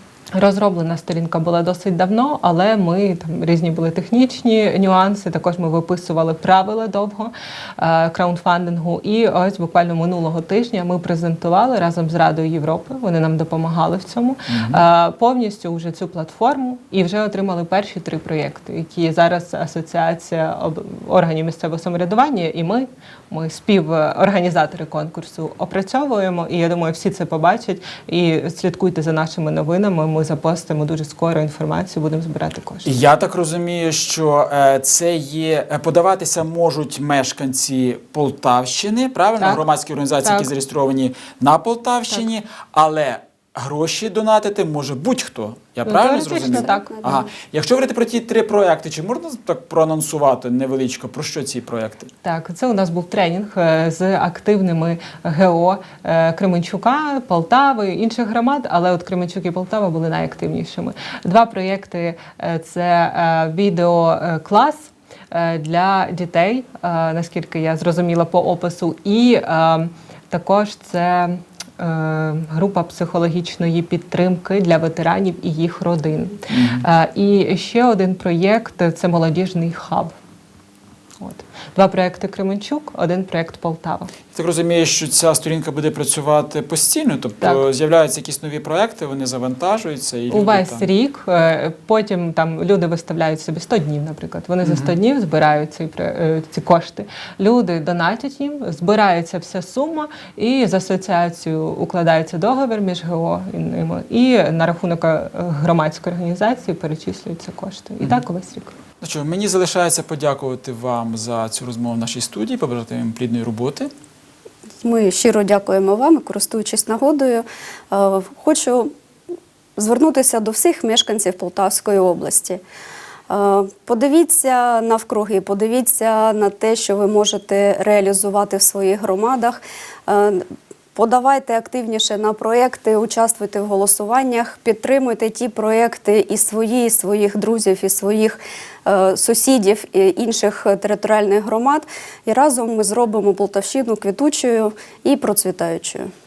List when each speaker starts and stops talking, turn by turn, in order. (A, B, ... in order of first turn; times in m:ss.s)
0:00.3-0:32.9 A
0:14.5-0:14.8 B
0:32.8-0:52.1 B
0:40.2-0:40.5 A
0:45.8-0:47.0 A
0:46.5-0:47.2 C
0:52.2-1:20.1 A
1:16.5-1:16.8 B
1:21.2-1:24.1 A
1:24.3-1:30.8 B
1:30.3-1:48.7 A
1:34.6-1:34.9 B
1:49.0-1:53.9 B
1:54.8-1:58.9 C
1:59.8-2:02.6 C
2:03.3-2:26.1 C